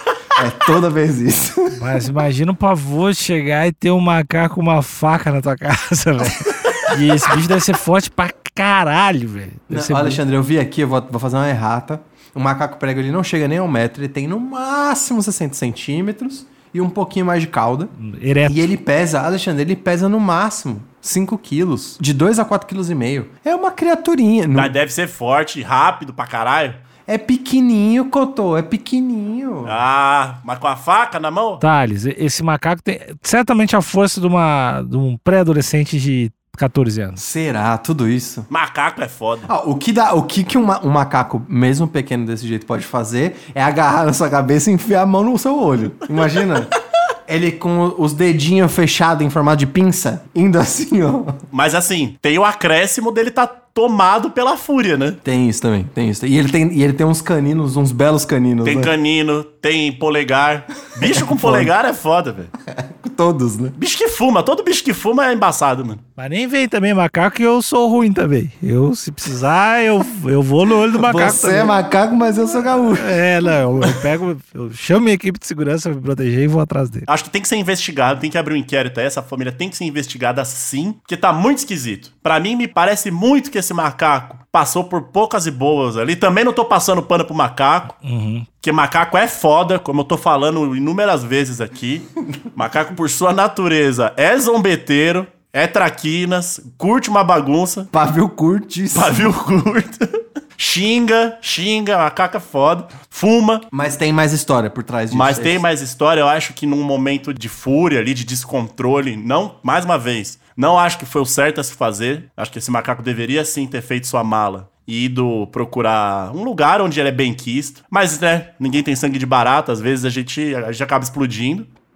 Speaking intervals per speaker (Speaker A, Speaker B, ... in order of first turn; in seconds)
Speaker A: 0.3-1.8, 9.7-17.9, 18.4-24.7, 27.1-29.8, 37.2-38.5, 39.5-46.7, 47.3-51.4, 55.2-58.9, 61.0-61.7, 62.7-63.8, 71.0-73.2, 97.9-99.3, 103.7-105.6
Speaker B: 1.7-10.2, 18.0-18.7, 31.6-37.2, 66.2-71.8, 72.9-77.1, 88.0-88.5
Speaker C: 24.5-26.8, 29.6-31.6, 38.5-39.5, 51.5-55.2, 58.6-62.5, 63.8-66.0, 77.1-88.0, 88.6-97.9, 98.9-100.0, 100.6-103.7, 105.1-121.7